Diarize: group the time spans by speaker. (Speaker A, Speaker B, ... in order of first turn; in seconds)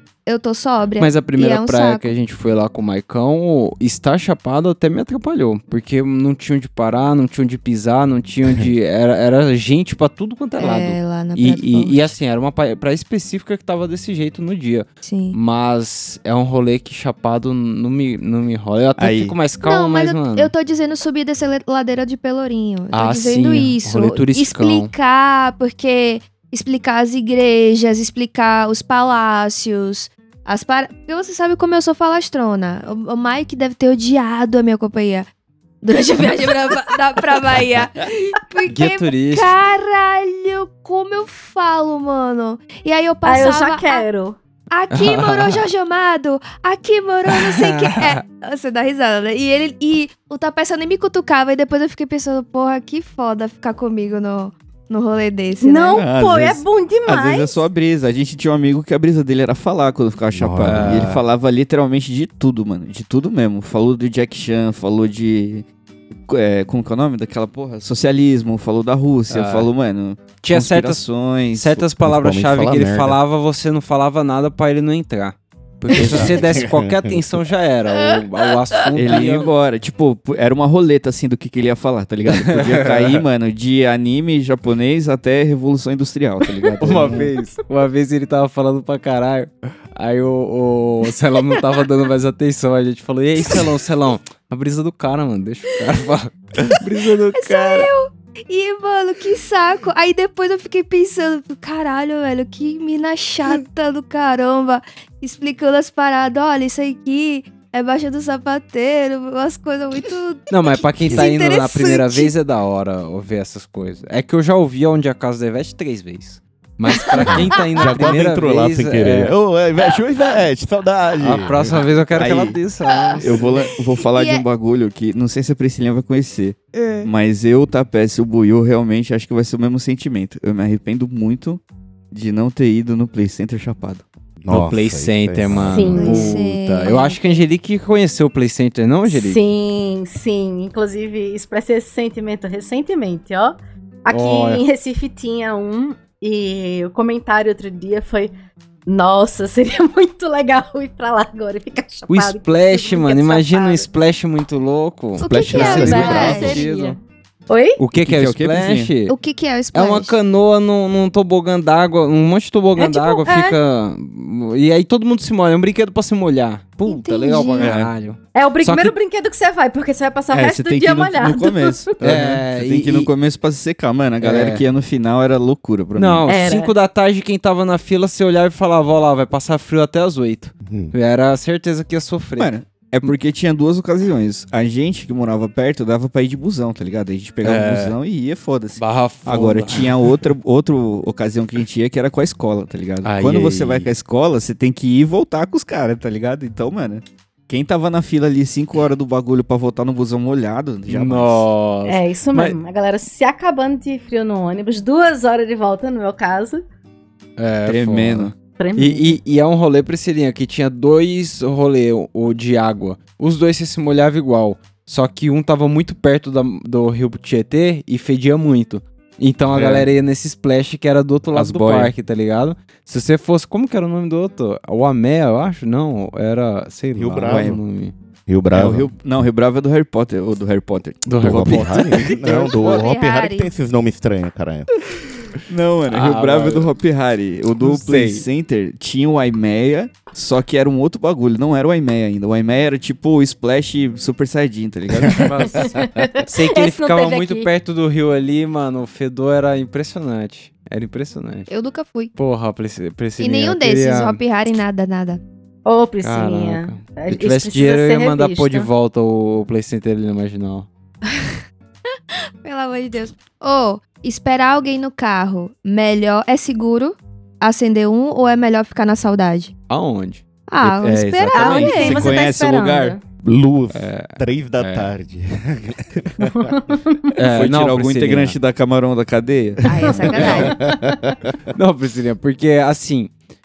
Speaker A: 0.3-2.1, 10.6-12.1, 15.0-15.4, 19.6-35.3, 35.8-44.1, 44.7-56.0, 97.3-112.3, 123.0-123.2, 124.1-124.4, 126.8-127.1, 136.0-137.4, 155.2-156.6, 159.1-160.2, 166.9-167.7, 232.6-233.5, 251.5-252.1, 253.2-255.2, 262.4-269.5, 270.5-272.2, 279.7-280.6
Speaker B: 1.0-20.5, 22.9-24.9, 38.7-39.6, 44.9-45.7, 47.3-48.2, 60.6-61.2, 69.3-69.7, 70.4-79.5, 82.3-83.2, 86.8-97.9, 110.5-119.3, 121.2-123.5, 134.5-139.4, 144.1-144.6, 152.1-157.0, 157.8-159.2, 159.7-169.0, 172.0-173.1, 174.2-174.6, 176.0-183.1, 187.4-188.0, 188.8-190.0, 193.0-193.9, 200.9-202.6, 207.4-227.9, 231.1-232.8, 235.9-236.7, 237.6-238.3, 245.1-251.5, 252.2-254.2, 256.0-260.7, 269.7-272.0, 273.7-274.9, 277.1-278.4, 280.1-280.5, 281.5-283.1
Speaker C: 19.0-19.4, 56.0-65.7, 66.3-71.8, 76.0-76.3, 79.0-87.3, 122.2-122.6, 123.2-134.0, 155.9-156.2, 158.0-158.9, 167.6-167.9, 170.3-176.3, 182.4-201.5, 207.7-208.3, 221.3-221.9, 227.3-227.6, 228.5-232.3, 235.4-245.7, 271.3-273.0, 277.3-280.4
Speaker D: 43.2-44.4, 55.6-57.6, 135.7-136.4, 139.1-148.3, 148.9-153.9, 155.5-157.8, 162.8-163.6, 168.3-171.9, 176.3-176.7, 201.8-206.6, 208.6-209.2, 245.1-247.5, 255.7-258.7, 271.4-273.0, 276.2-277.1, 280.3-280.9
Speaker E: 60.4-61.1, 72.0-73.2, 75.9-77.4, 86.9-87.3, 117.3-121.8, 134.4-136.2, 155.2-156.5, 180.6-180.9, 219.4-219.9, 226.9-227.6, 228.3-228.9, 231.2-234.7, 273.2-276.5, 280.2-281.3